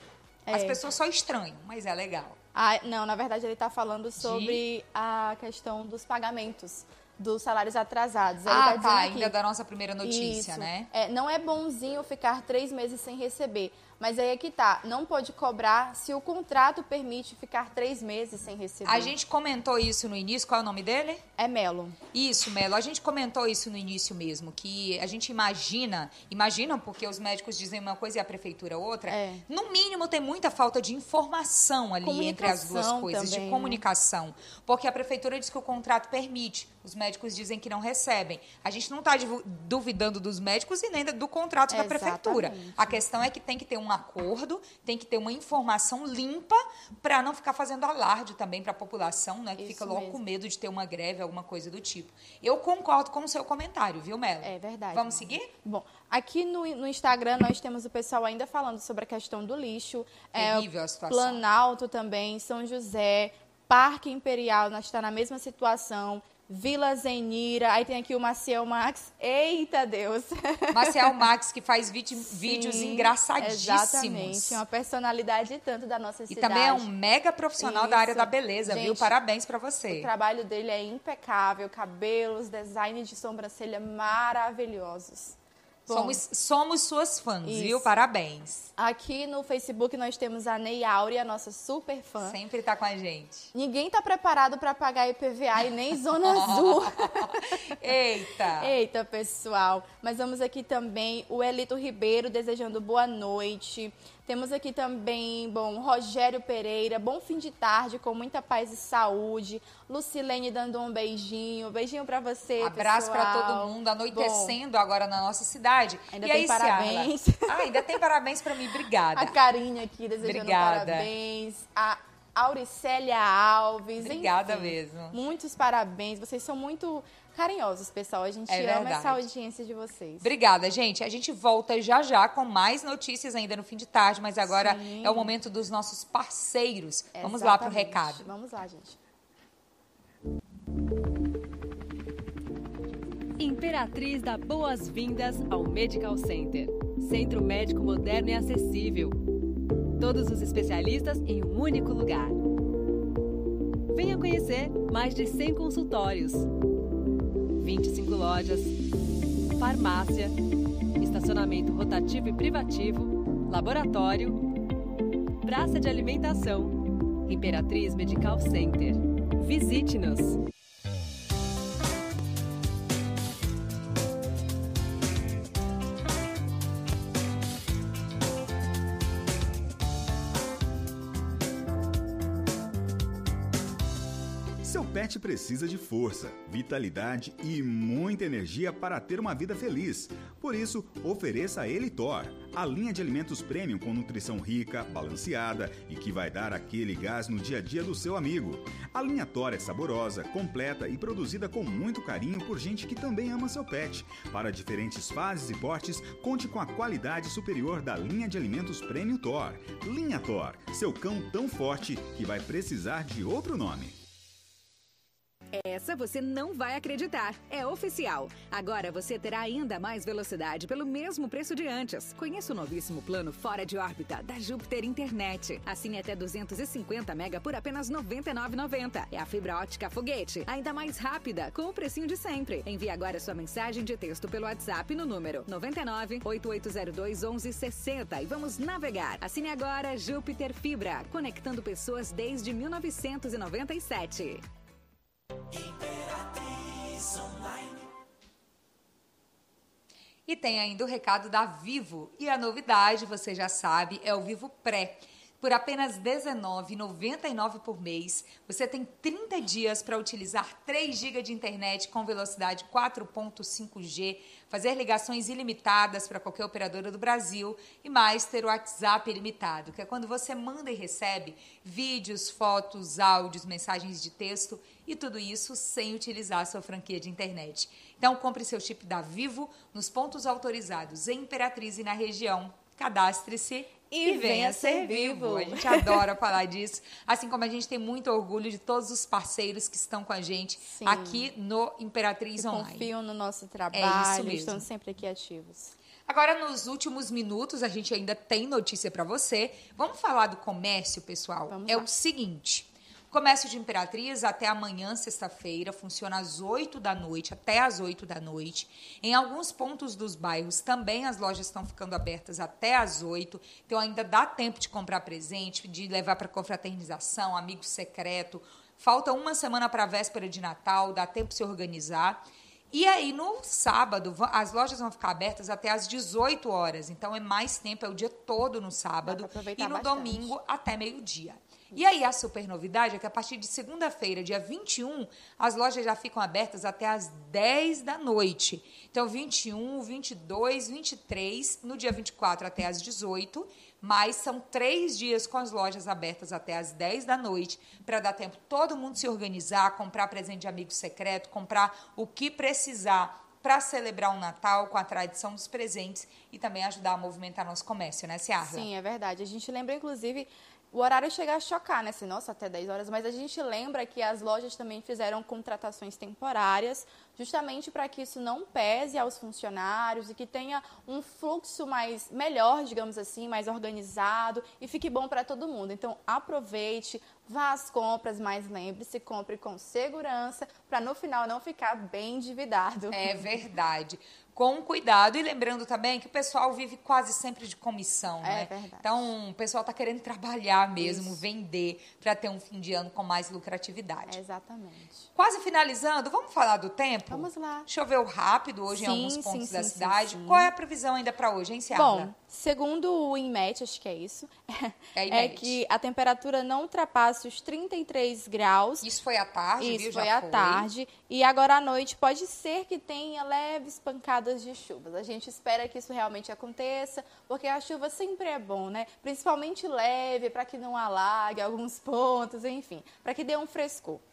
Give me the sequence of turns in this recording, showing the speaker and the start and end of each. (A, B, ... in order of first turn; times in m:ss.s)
0:00.4-0:00.8 A
0:00.5-0:02.4 B
0:02.5-0:09.3 A
0:04.2-0:04.6 B
0:08.4-0:10.9 B
0:10.0-0:19.1 A
0:18.8-0:21.2 B
0:21.4-0:22.0 A
0:22.1-0:55.5 B
0:29.1-0:29.4 A
0:32.0-0:33.8 A
0:41.7-0:43.0 A
0:49.6-0:50.2 A
0:54.4-1:11.2 A
1:00.3-1:01.4 B
1:10.7-1:14.6 B
1:12.2-1:16.9 A
1:16.3-1:20.1 B
1:17.6-1:19.1 A
1:19.9-1:26.2 A
1:25.9-1:28.7 B
1:27.4-1:27.9 A
1:28.8-1:32.4 A
1:32.2-1:33.5 B
1:33.5-1:37.6 A
1:36.2-1:38.7 B
1:38.6-1:54.6 A
1:52.6-1:59.4 B
1:56.1-1:58.0 A
1:59.1-2:10.3 A
2:00.2-2:01.1 B
2:04.0-2:05.2 B
2:08.5-2:09.3 B
2:10.2-2:18.3 B
2:14.4-2:15.3 A
2:17.1-2:19.0 A
2:23.4-2:29.2 C
2:30.0-2:32.4 C
2:33.9-2:36.5 C
2:37.6-2:38.8 C
2:39.5-2:40.4 C
2:41.0-2:44.4 C
2:45.4-2:50.4 C
3:04.6-3:34.0 D
3:35.5-4:04.4 E
4:07.0-4:07.5 E
4:10.3-4:52.9 B
4:43.9-4:46.1 A
4:50.6-4:51.3 A
4:52.4-4:55.7 A
4:53.7-4:54.6 B
4:56.1-5:58.7 B
5:01.5-5:01.9 A
5:29.0-5:30.3 A
5:58.5-6:23.2 A
6:22.9-6:34.2 B
6:28.2-6:29.1 A
6:30.8-6:31.2 A
6:34.1-6:35.1 A
6:35.1-6:42.1 B
6:37.1-6:37.7 A
6:38.7-6:40.5 A
6:41.7-6:48.9 A
6:44.9-6:45.6 B
6:48.8-6:50.7 B
6:49.6-7:04.0 A